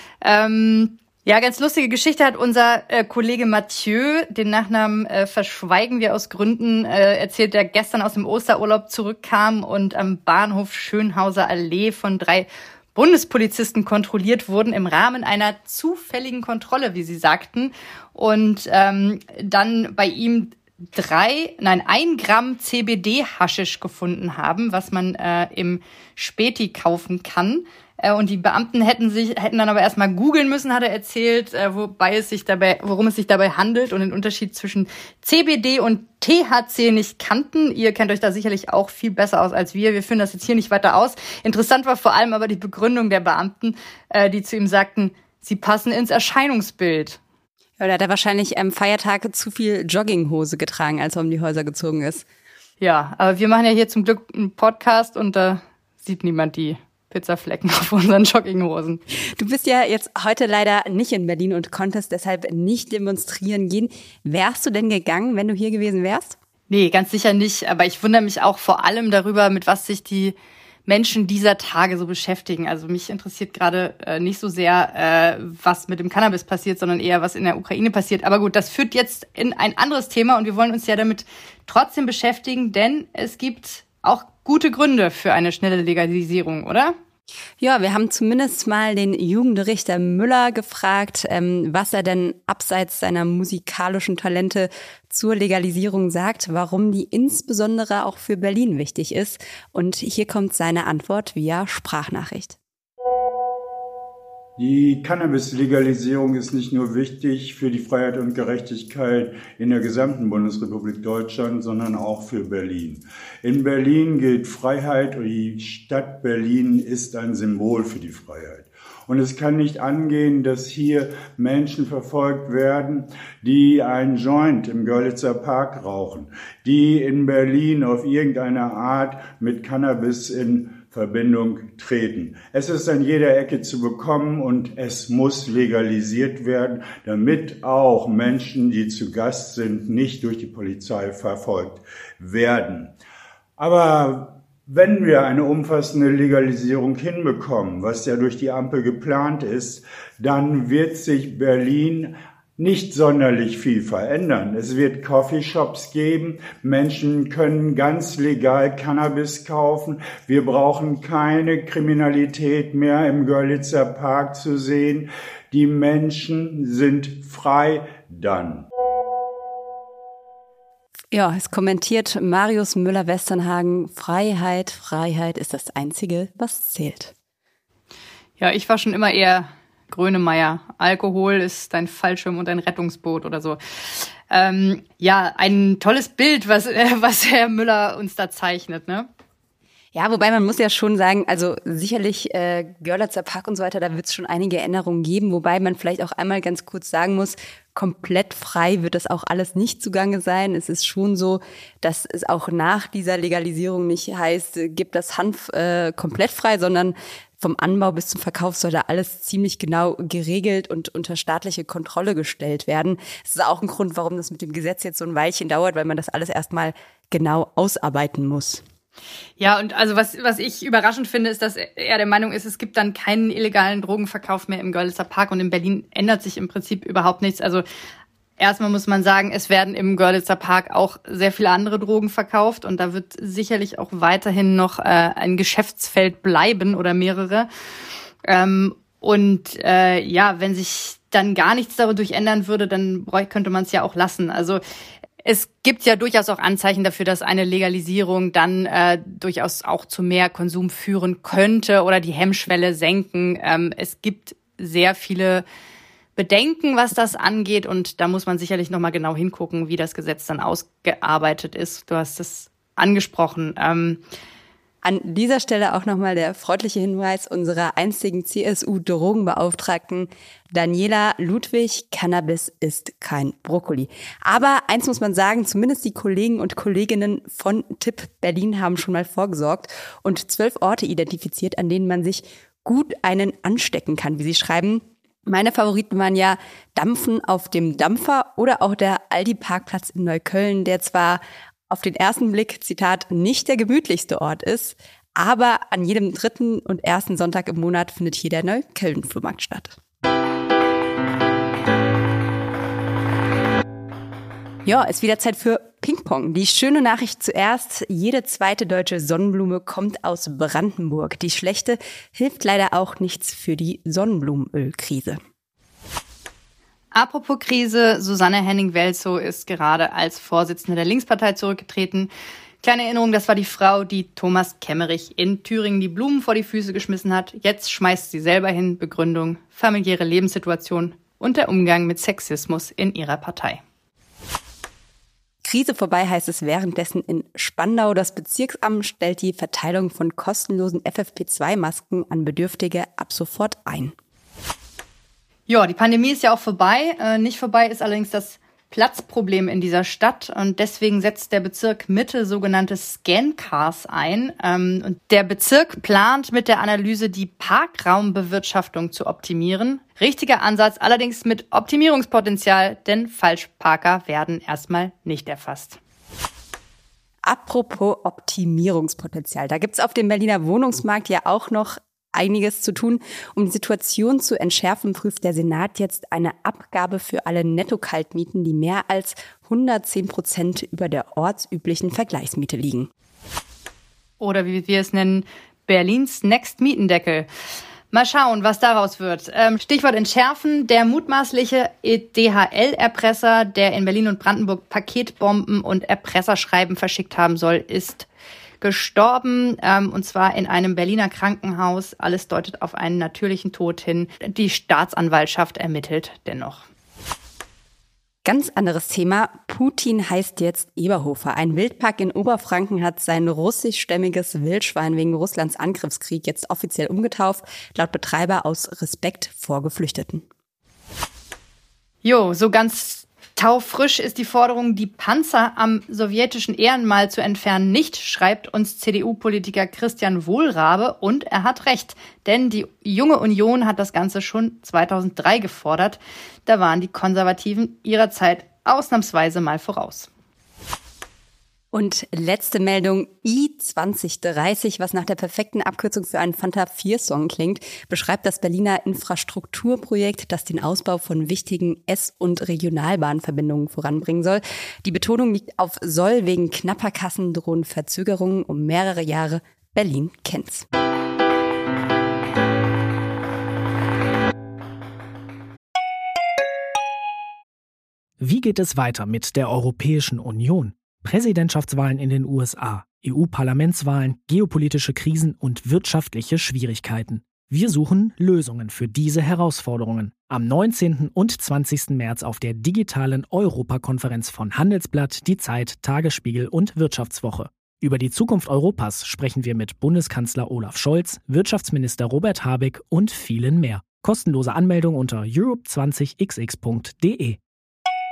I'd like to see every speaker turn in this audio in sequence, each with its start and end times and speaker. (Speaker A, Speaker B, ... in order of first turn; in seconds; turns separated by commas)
Speaker A: 0.2-47.2, Speaker B: 47.8-52.2, Speaker A: 52.8-59.0, Speaker B: 59.4-66.4, Speaker A: 66.7-70.3, Speaker A: 70.8-87.0, Speaker B: 87.6-102.6, Speaker C: 104.6-142.9, Speaker C: 143.6-168.7, Speaker B: 171.1-177.1, Speaker A: 178.4-189.1, Speaker B: 189.9-218.6, Speaker A: 219.4-227.6, Speaker A: 228.4-237.5, Speaker A: 238.2-244.6, Speaker A: 245.2-255.4, Speaker A: 256.1-264.0, Speaker B: 264.8-299.8, Speaker B: 304.6-315.2, Speaker A: 316.9-322.1, Speaker A: 322.6-333.6, Speaker B: 335.4-343.9, Speaker A: 345.5-365.8, Speaker B: 367.2-382.9, Speaker A: 384.2-387.3, Speaker A: 387.9-398.1, Speaker A: 398.6-406.7, Speaker B: 408.2-420.2, Speaker A: 422.0-440.1, Speaker B: 441.7-460.6, Speaker D: 468.2-497.4